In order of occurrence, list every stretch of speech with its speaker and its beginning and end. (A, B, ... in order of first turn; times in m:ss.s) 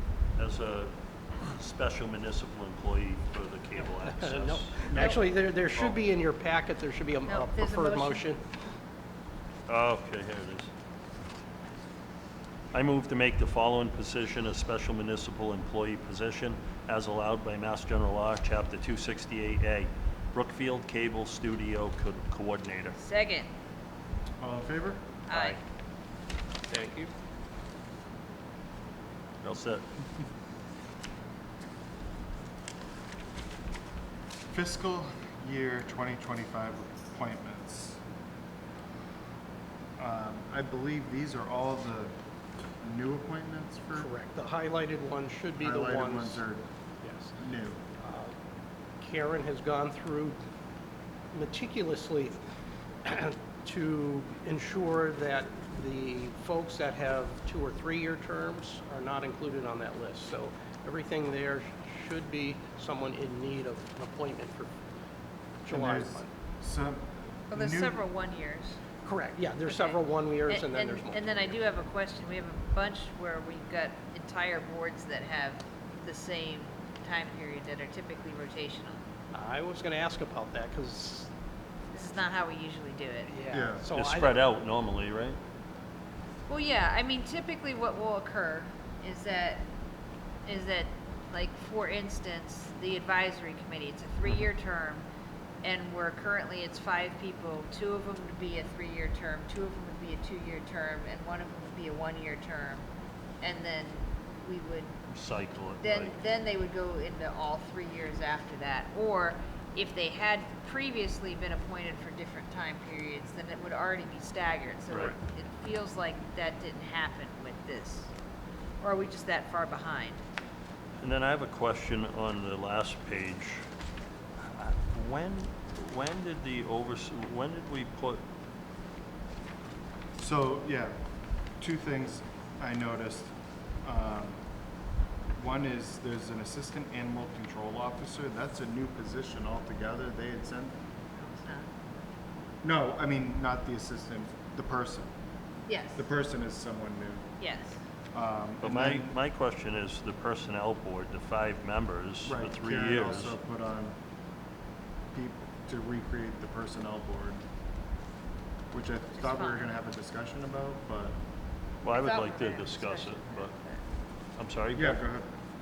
0:00.4-0:05.2 A
0:03.8-0:08.4 B
0:07.2-0:08.3 C
0:09.7-0:10.7 A
0:12.7-0:23.0 A
0:23.0-0:23.5 C
0:24.4-0:25.2 D
0:25.3-0:25.6 C
0:26.7-0:27.1 B
0:29.4-0:29.8 A
0:34.5-0:38.0 D
0:40.0-0:42.1 D
0:42.8-0:44.1 D
0:43.9-0:46.4 B
0:45.6-0:46.7 D
0:47.0-0:47.3 B
0:47.4-0:47.8 D
0:48.0-0:48.3 B
0:49.0-0:50.4 B
0:51.3-0:52.4 B
0:53.0-1:04.7 B
1:05.6-1:06.3 B
1:05.7-1:08.0 D
1:07.5-1:08.8 C
1:09.0-1:11.5 B
1:09.6-1:19.0 C
1:19.3-1:21.3 B
1:21.9-1:23.3 C
1:23.3-1:24.4 B
1:23.5-1:23.8 D
1:23.9-1:25.4 A
1:26.5-1:29.7 C
1:30.4-1:35.0 C
1:35.6-1:42.9 C
1:43.4-1:45.0 C
1:45.1-1:46.1 A
1:45.8-1:58.1 C
1:54.9-1:55.1 A
1:58.8-2:00.2 C
2:01.0-2:03.6 A
2:04.4-2:08.2 A
2:10.2-2:10.9 D
2:11.6-2:14.4 D
2:15.4-2:20.7 D
2:21.1-2:21.7 C
2:22.6-2:25.1 D
2:25.7-2:26.0 C
2:25.9-2:27.3 D
2:27.4-2:27.8 C
2:28.1-2:29.2 D
2:28.6-2:33.4 A
2:32.2-2:34.0 D
2:35.1-2:37.4 D
2:38.7-2:41.2 D
2:39.1-2:39.7 C
2:41.8-2:43.5 A
2:41.9-2:43.8 C
2:44.4-2:45.0 A
2:44.7-2:45.3 D